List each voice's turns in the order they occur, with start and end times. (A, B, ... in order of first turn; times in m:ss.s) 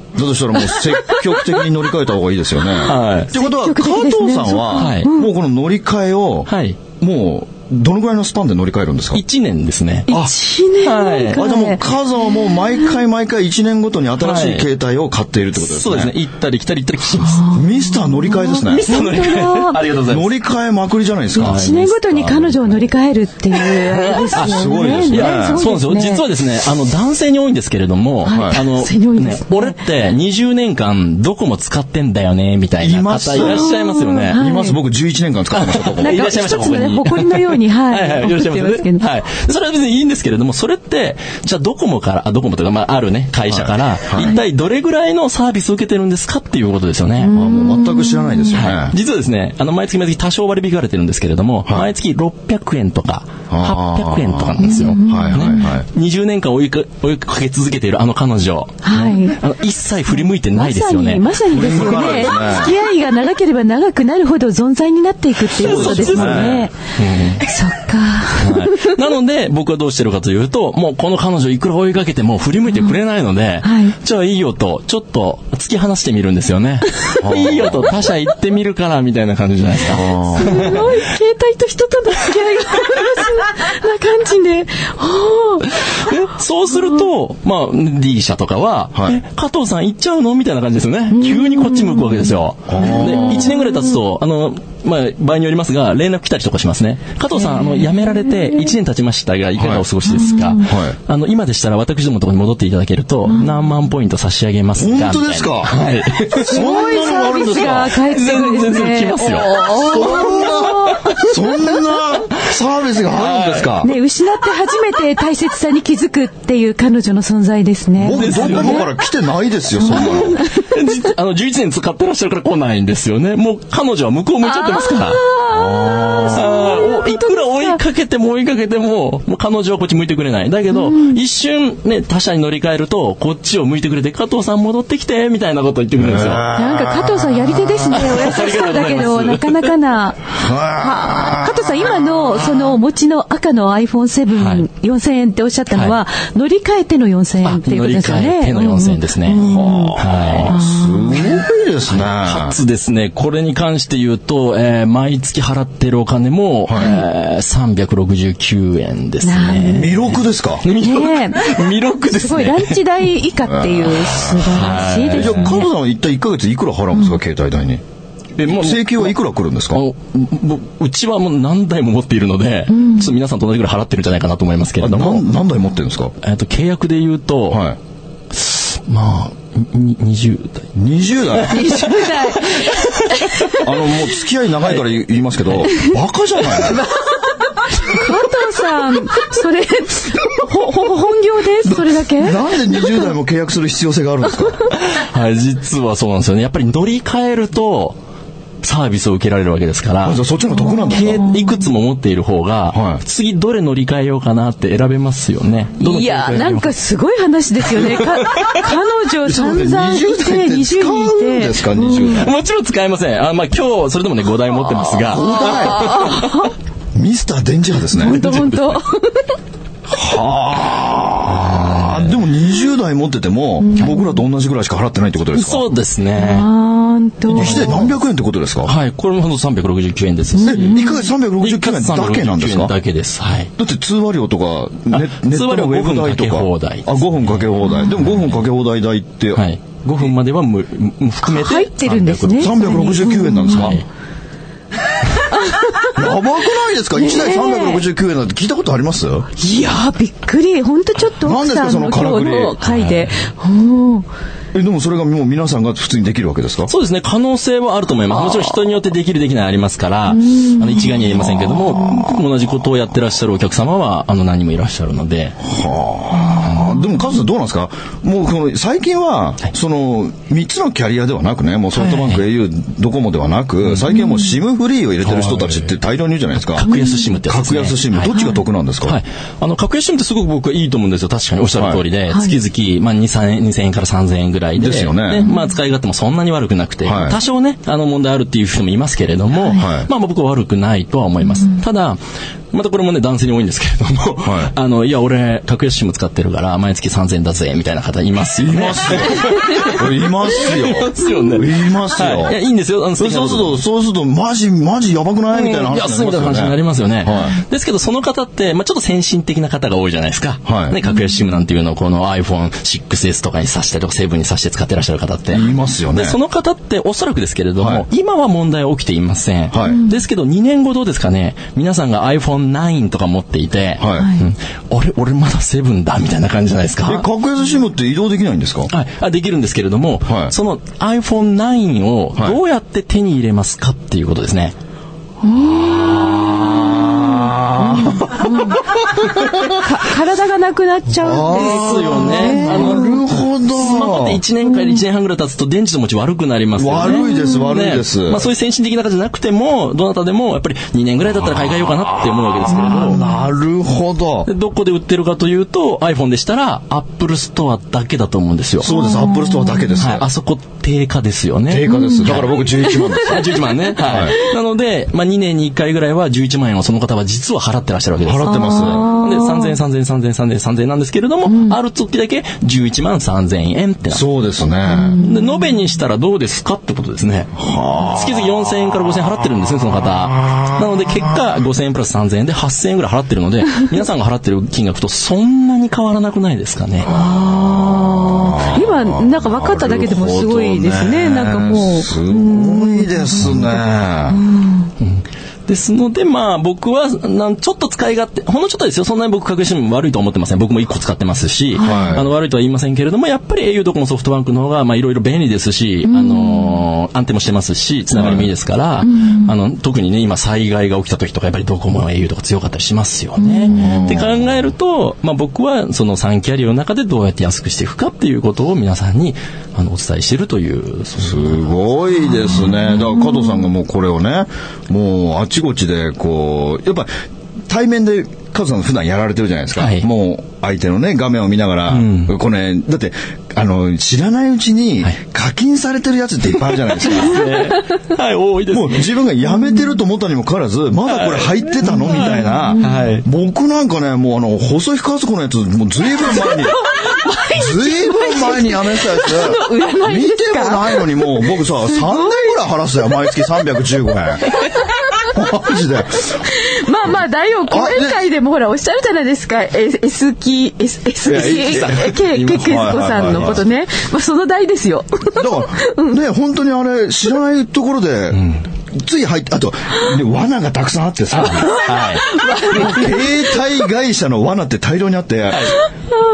0:00.1-0:09.2 A
0:02.8-0:03.3 B
0:03.3-0:05.3 C
0:04.8-0:05.1 B
0:06.5-0:06.8 B
0:09.1-0:10.1 B
0:10.1-0:10.3 A
0:10.1-0:12.6 C
0:10.8-0:11.4 B
0:11.3-0:16.1 A
0:14.2-0:14.7 B
0:15.6-0:17.5 B
0:17.2-0:19.8 C
0:17.5-0:19.0 A
0:18.7-0:20.3 B
0:20.0-0:21.8 A
0:21.4-0:26.2 C
0:21.4-0:22.8 B
0:23.6-0:34.4 B
0:24.3-0:25.6 A
0:28.2-0:29.8 C
0:28.2-0:28.6 A
0:32.8-0:33.7 A
0:33.4-0:34.8 C
0:34.3-0:36.3 A
0:35.5-0:47.3 B
0:36.0-0:39.0 C
0:43.5-0:44.3 A
0:47.2-0:48.6 C
0:47.3-0:48.9 A
0:48.5-1:02.3 B
0:53.5-0:55.8 A
0:54.6-0:55.7 C
0:58.8-0:59.4 C
1:00.5-1:06.7 C
1:01.5-1:02.7 A
1:05.5-1:06.6 A
1:05.6-1:07.4 B
1:07.4-1:09.0 C
1:08.4-1:20.9 B
1:13.6-1:13.9 C
1:17.2-1:18.0 A
1:19.9-1:20.8 A
1:20.3-1:26.2 C
1:25.7-1:51.2 B
1:31.1-1:34.0 C
1:32.7-1:33.5 A
1:37.4-1:38.6 C
1:39.6-1:39.8 A
1:40.1-1:40.6 C
1:40.6-1:41.0 A
1:44.8-1:47.9 A
1:46.4-1:51.4 C
1:49.5-1:53.9 A
1:53.1-1:53.8 B
1:53.8-1:58.9 C
1:58.0-2:00.4 A
1:58.1-1:58.9 B
1:59.8-2:00.9 C
1:59.9-2:05.2 B
2:04.4-2:07.8 C
2:05.5-2:06.9 A
2:06.3-2:16.5 B
2:10.7-2:11.2 C
2:16.0-2:18.0 A
2:16.5-2:31.4 C
2:17.9-2:19.7 B
2:20.3-2:22.1 A
2:24.4-2:24.6 B
2:25.7-2:26.0 B
2:27.4-2:29.4 B
2:29.4-2:32.6 A
2:29.9-2:30.6 B
2:31.9-2:42.8 B
2:36.8-2:37.0 C
2:39.2-2:40.0 C
2:39.6-2:40.6 A
2:40.7-2:45.7 C
2:43.4-2:44.6 A
2:44.4-2:45.7 B
2:45.1-2:47.8 A
2:48.4-2:49.1 B
2:48.4-2:49.8 A
2:49.7-2:55.2 B
2:52.7-2:53.1 C
2:54.8-2:56.1 A
2:56.2-2:57.6 B
2:57.5-2:57.8 A
2:58.3-3:00.7 B
3:00.7-3:01.8 A
3:01.3-3:03.5 B
3:01.5-3:03.7 C
3:03.5-3:06.9 A
3:06.5-3:13.1 C
3:11.6-3:14.6 A
3:14.7-3:18.0 B
3:18.6-3:20.2 B
3:20.0-3:21.3 A
3:20.6-3:21.5 C
3:20.9-3:26.7 B
3:22.7-3:23.0 A
3:25.8-3:32.2 C
3:27.7-3:28.7 B
3:29.2-3:32.3 A
3:32.1-3:36.4 B
3:35.0-3:36.2 A
3:35.4-3:36.5 C
3:36.9-3:38.3 A
3:37.9-3:39.4 C
3:38.0-3:38.8 B
3:39.9-3:45.6 A
3:41.2-3:42.2 B
3:43.6-3:44.2 C
3:45.3-3:46.5 B
3:46.2-3:47.8 C
3:47.3-3:48.7 A
3:47.3-3:47.9 B
3:48.6-3:50.8 B
3:50.4-3:51.1 C
3:50.4-3:52.7 A
3:51.4-3:53.5 B
3:53.6-3:59.4 A
3:54.9-3:58.4 B
3:59.3-4:03.8 B
4:01.2-4:03.8 C
4:02.4-4:03.8 A
4:05.2-4:06.2 C
4:05.9-4:09.3 A
4:06.9-4:07.8 C
4:09.4-4:14.1 C
4:11.2-4:12.6 A
4:12.6-4:13.1 B
4:14.5-4:16.7 A
4:16.7-4:25.4 B
4:20.1-4:22.0 C
4:25.4-4:36.7 A
4:31.8-4:32.2 B
4:33.9-4:34.3 C
4:35.0-4:35.7 B
4:36.5-4:38.1 B
4:36.7-4:37.1 C
4:37.2-4:39.0 A
4:38.1-4:38.4 C
4:38.8-4:52.0 B
4:41.6-4:41.8 A
4:42.1-4:42.4 C
4:44.6-4:45.3 A
4:46.8-4:47.2 A
4:49.5-4:49.9 A
4:52.5-5:03.6 B
4:54.2-4:54.5 A
4:58.4-5:02.4 A
5:03.0-5:07.4 A
5:05.3-5:27.1 B
5:10.4-5:10.8 A
5:15.3-5:16.2 A
5:17.6-5:17.8 A
5:19.5-5:19.8 A
5:23.8-5:24.1 A
5:26.8-5:28.7 A
5:28.7-5:34.6 B
5:30.0-5:30.3 A
5:35.2-5:43.1 C
5:35.3-5:39.7 A
5:41.0-5:44.2 A
5:41.3-5:43.0 B
5:43.5-5:53.0 B
5:44.5-5:44.8 C
5:46.6-5:48.3 A
5:46.8-5:47.5 C
5:52.4-5:54.3 A
5:52.7-5:53.0 C
5:54.2-5:58.7 B
5:58.6-6:00.1 A
5:58.7-5:59.8 C
5:59.8-6:14.0 B
6:01.5-6:04.2 A
6:01.7-6:03.1 C
6:08.0-6:08.9 A
6:08.2-6:09.6 C
6:11.3-6:11.6 C
6:13.9-6:15.0 A
6:14.7-6:15.6 C
6:15.0-6:17.4 B
6:17.4-6:18.3 A
6:17.9-6:26.9 B
6:26.9-6:34.7 C
6:26.9-6:34.2 A
6:34.8-7:01.4 B
6:41.5-6:42.0 C
6:41.6-6:42.1 A
6:45.9-6:46.6 C
6:47.9-6:48.3 A
6:48.8-6:49.3 C
6:53.2-6:53.9 C
6:53.5-6:54.5 A
7:01.0-7:06.9 A
7:07.5-7:17.3 A
7:09.6-7:09.9 B
7:11.7-7:12.1 B
7:16.8-7:18.9 B
7:18.5-7:26.6 A
7:20.9-7:22.0 B
7:21.9-7:22.8 C
7:22.6-7:23.0 B
7:26.0-7:32.4 C
7:27.3-7:34.3 A
7:33.0-7:33.3 C
7:34.9-7:35.2 C
7:35.0-7:36.2 A
7:36.2-7:46.0 C
7:37.5-7:38.0 A
7:41.0-7:43.4 A
7:41.1-7:43.4 B
7:45.2-7:51.6 A
7:48.1-7:48.4 B
7:51.2-7:52.8 B
7:51.3-7:53.3 C
7:52.5-7:55.6 A
7:55.3-7:55.6 B